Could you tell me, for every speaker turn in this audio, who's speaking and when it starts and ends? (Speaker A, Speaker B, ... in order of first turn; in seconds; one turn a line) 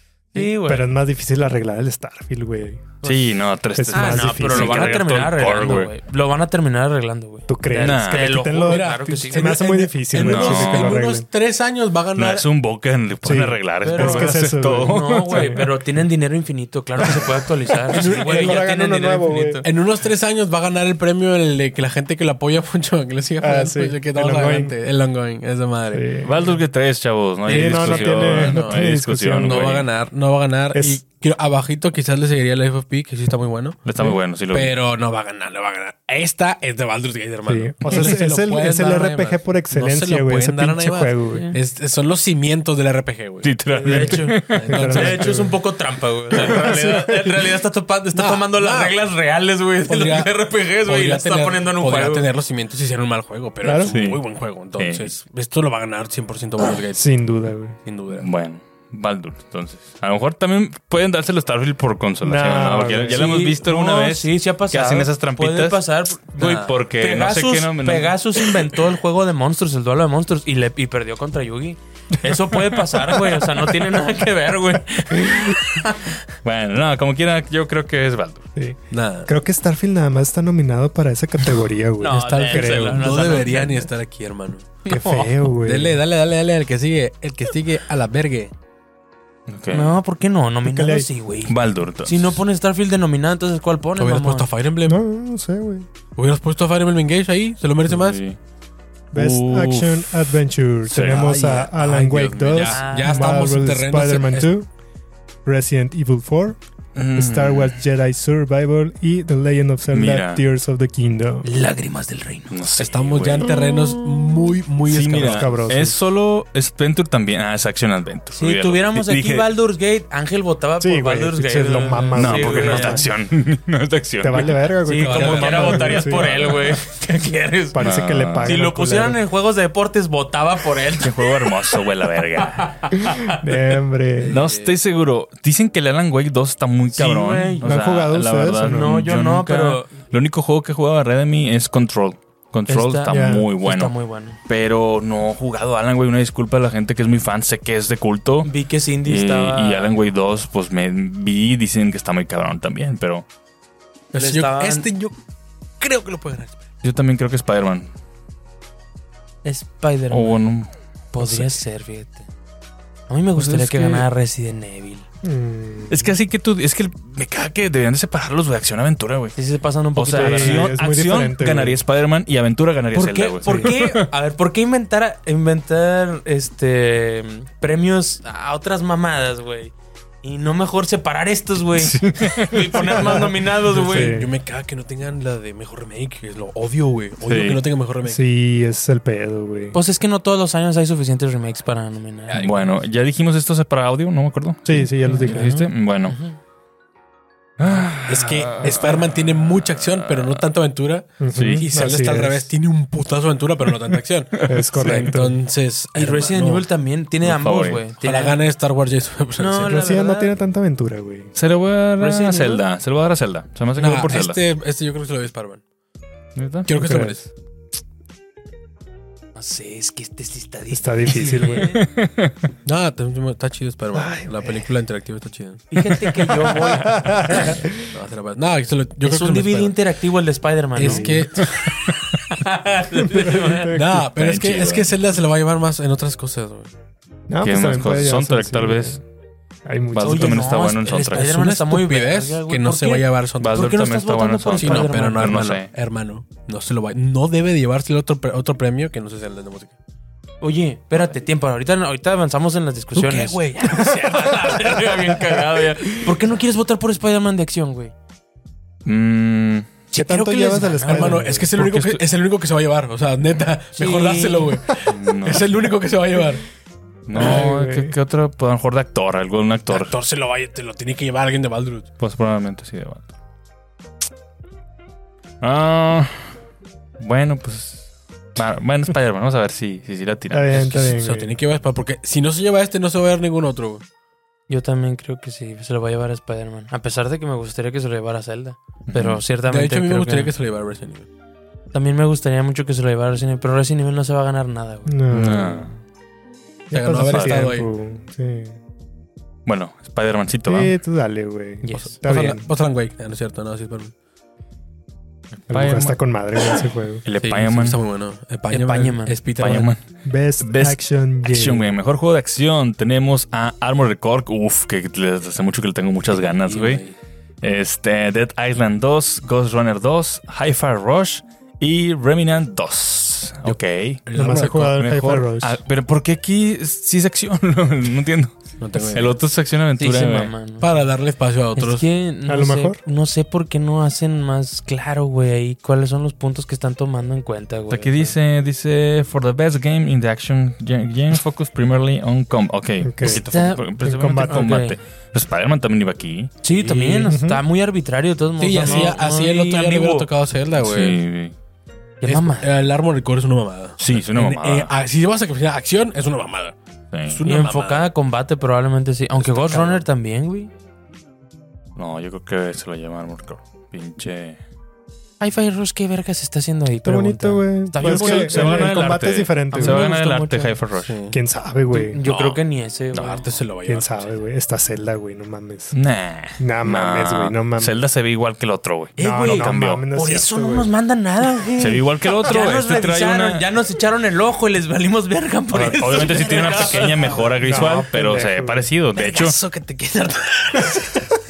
Speaker A: 0.3-0.9
Speaker B: 0.4-3.0
Speaker C: 3.0-3.3
Speaker D: 3.0-5.9
Speaker B: 3.8-5.0
Speaker A: 3.9-9.7
Speaker B: 7.5-11.2
Speaker D: 7.8-8.4
Speaker C: 8.6-12.5
Speaker D: 10.2-11.0
Speaker D: 12.2-15.6
Speaker B: 13.2-15.6
Speaker A: 13.8-19.7
Speaker C: 17.9-18.7
Speaker B: 18.0-19.6
Speaker C: 19.6-26.1
Speaker B: 23.4-24.7
Speaker B: 25.9-26.3
Speaker D: 26.2-29.9
Speaker C: 27.4-33.9
Speaker B: 27.5-29.6
Speaker B: 30.7-31.0
Speaker D: 33.8-34.7
Speaker C: 34.5-45.5
Speaker B: 37.5-41.5
Speaker A: 41.3-41.6
Speaker D: 43.4-44.6
Speaker A: 43.7-52.3
Speaker B: 43.9-45.5
Speaker B: 46.3-47.3
Speaker C: 46.4-46.8
Speaker C: 48.1-49.0
Speaker C: 49.8-57.1
Speaker B: 53.6-53.9
Speaker D: 53.9-54.2
Speaker D: 54.7-55.1
Speaker B: 56.9-57.8
Speaker C: 57.8-58.3
Speaker D: 58.1-65.8
Speaker B: 62.2-63.4
Speaker A: 63.1-76.2
Speaker D: 66.3-68.5
Speaker C: 66.4-66.7
Speaker D: 76.4-78.5
Speaker B: 78.5-83.2
Speaker C: 78.9-79.3
Speaker A: 82.0-83.9
Speaker C: 82.1-84.8
Speaker A: 84.8-85.3
Speaker B: 84.9-86.0
Speaker C: 85.6-88.5
Speaker D: 89.5-90.0
Speaker A: 89.7-94.5
Speaker B: 90.6-91.1
Speaker D: 91.5-92.4
Speaker C: 94.0-95.0
Speaker B: 94.8-95.9
Speaker C: 96.2-98.2
Speaker D: 97.9-98.4
Speaker D: 99.1-100.3
Speaker B: 99.1-104.7
Speaker D: 100.9-101.4
Speaker C: 101.1-104.5
Speaker A: 102.5-103.3
Speaker B: 105.4-106.6
Speaker D: 106.9-107.8
Speaker B: 107.1-111.5
Speaker D: 109.9-110.4
Speaker A: 111.4-112.6
Speaker D: 112.5-113.6
Speaker C: 112.8-115.9
Speaker D: 114.9-119.5
Speaker B: 115.2-116.0
Speaker A: 118.3-123.0
Speaker B: 120.8-123.1
Speaker D: 122.2-126.8
Speaker B: 124.2-126.3
Speaker A: 124.8-127.8
Speaker C: 125.0-126.0
Speaker B: 127.7-129.2
Speaker D: 127.8-128.6
Speaker A: 128.4-131.8
Speaker D: 131.0-132.8
Speaker A: 132.4-133.4
Speaker B: 133.1-134.4
Speaker C: 134.2-134.8
Speaker D: 134.3-143.9
Speaker A: 136.9-137.7
Speaker B: 137.6-138.9
Speaker A: 138.6-139.9
Speaker A: 142.7-144.4
Speaker B: 143.1-143.5
Speaker D: 144.5-148.5
Speaker A: 148.4-149.9
Speaker D: 149.0-153.2
Speaker C: 154.1-155.2
Speaker A: 154.1-154.9
Speaker C: 155.8-156.7
Speaker D: 156.8-157.9
Speaker A: 159.4-160.4
Speaker D: 160.1-161.6
Speaker A: 161.1-162.3
Speaker A: 163.1-165.1
Speaker D: 163.4-164.1
Speaker B: 165.2-166.1
Speaker D: 165.9-169.4
Speaker A: 169.3-170.7
Speaker D: 169.9-174.0
Speaker B: 170.1-171.8
Speaker A: 172.9-184.2
Speaker B: 173.4-173.7
Speaker D: 181.8-183.0
Speaker B: 182.8-184.3
Speaker C: 183.7-188.2
Speaker D: 187.2-187.6
Speaker B: 188.0-189.8
Speaker A: 189.7-192.5
Speaker C: 192.3-192.8
Speaker D: 192.3-196.2
Speaker B: 194.7-195.7
Speaker A: 196.1-196.4
Speaker D: 197.6-200.4
Speaker C: 198.1-206.7
Speaker B: 201.2-202.5
Speaker D: 201.3-201.7
Speaker B: 204.4-205.4
Speaker A: 204.8-205.1
Speaker A: 205.9-208.4
Speaker D: 207.2-207.8
Speaker C: 208.0-209.8
Speaker A: 209.4-210.3
Speaker B: 209.7-211.3
Speaker D: 211.3-214.4
Speaker A: 212.0-212.6
Speaker C: 213.7-215.6
Speaker D: 216.3-216.8
Speaker C: 216.7-217.3
Speaker B: 216.7-217.2
Speaker A: 219.3-221.8
Speaker B: 220.7-221.7
Speaker D: 221.7-222.3
Speaker C: 222.6-225.6
Speaker B: 223.9-224.5
Speaker A: 225.7-227.6
Speaker B: 226.4-227.6
Speaker C: 227.4-229.8
Speaker A: 229.0-231.1
Speaker C: 230.8-231.7
Speaker B: 230.8-231.2
Speaker A: 232.3-233.7
Speaker B: 233.2-234.0
Speaker C: 233.7-236.7
Speaker D: 234.1-234.9
Speaker B: 237.3-239.0
Speaker D: 237.4-239.0
Speaker B: 239.7-240.6
Speaker D: 239.9-241.3
Speaker A: 240.0-245.4
Speaker C: 240.9-249.7
Speaker D: 243.4-245.7
Speaker A: 250.4-257.9
Speaker C: 252.9-256.0
Speaker D: 258.8-259.7
Speaker A: 259.9-261.4
Speaker B: 259.9-261.5
Speaker C: 260.8-266.4
Speaker D: 261.5-262.0
Speaker A: 263.8-264.5
Speaker D: 264.9-265.6
Speaker D: 267.1-269.9
Speaker B: 267.1-267.9
Speaker C: 269.7-271.9
Speaker D: 272.0-273.1
Speaker D: 275.4-276.3
Speaker D: 277.0-280.9
Speaker B: 280.3-281.4
Speaker C: 280.5-283.8
Speaker A: 284.5-290.3
Speaker D: 288.9-289.2
Speaker C: 289.5-291.1
Speaker A: 291.7-294.9
Speaker B: 294.9-295.6
Speaker D: 295.1-295.8
Speaker B: 296.7-298.6
Speaker C: 296.7-297.7
Speaker D: 297.1-297.6
Speaker D: 299.4-300.7
Speaker B: 300.5-302.4
Speaker A: 301.6-301.9
Speaker C: 301.7-303.9
Speaker D: 305.3-306.0
Speaker B: 305.5-307.0
Speaker D: 307.0-307.8
Speaker C: 307.1-309.7
Speaker A: 308.5-309.2
Speaker D: 309.4-309.8
Speaker B: 310.1-311.7
Speaker D: 310.4-316.8
Speaker C: 316.4-316.9
Speaker D: 317.4-328.3
Speaker C: 323.4-324.8
Speaker B: 324.1-325.6
Speaker C: 328.6-329.2
Speaker D: 328.9-330.3
Speaker A: 329.8-330.7
Speaker C: 330.6-331.9
Speaker A: 331.6-338.1
Speaker B: 332.2-332.8
Speaker D: 337.7-346.4
Speaker B: 342.8-343.2
Speaker A: 343.0-343.7
Speaker B: 343.8-344.6
Speaker A: 344.2-344.8
Speaker A: 346.4-350.1
Speaker C: 346.5-346.9
Speaker B: 347.0-347.4
Speaker C: 348.4-351.0
Speaker D: 348.6-348.9
Speaker D: 350.6-351.3
Speaker A: 352.0-352.5
Speaker C: 352.0-356.6
Speaker D: 353.8-354.7
Speaker D: 356.9-357.2
Speaker C: 357.1-357.9
Speaker A: 357.2-360.5
Speaker C: 359.3-359.8
Speaker D: 361.7-364.4
Speaker A: 365.2-368.9
Speaker B: 366.8-370.6
Speaker D: 367.8-370.9
Speaker A: 369.5-370.4
Speaker C: 370.8-371.2
Speaker B: 371.1-372.0
Speaker A: 371.7-373.2
Speaker D: 372.1-372.4
Speaker D: 372.9-373.2
Speaker C: 373.0-374.1
Speaker B: 373.6-375.7
Speaker D: 375.7-379.9
Speaker B: 376.4-377.7
Speaker A: 379.0-379.3
Speaker B: 379.0-380.7
Speaker C: 379.0-379.5
Speaker A: 379.9-387.3
Speaker D: 381.6-383.4
Speaker D: 385.5-389.4
Speaker C: 386.1-387.2
Speaker B: 387.4-388.7
Speaker A: 388.9-391.0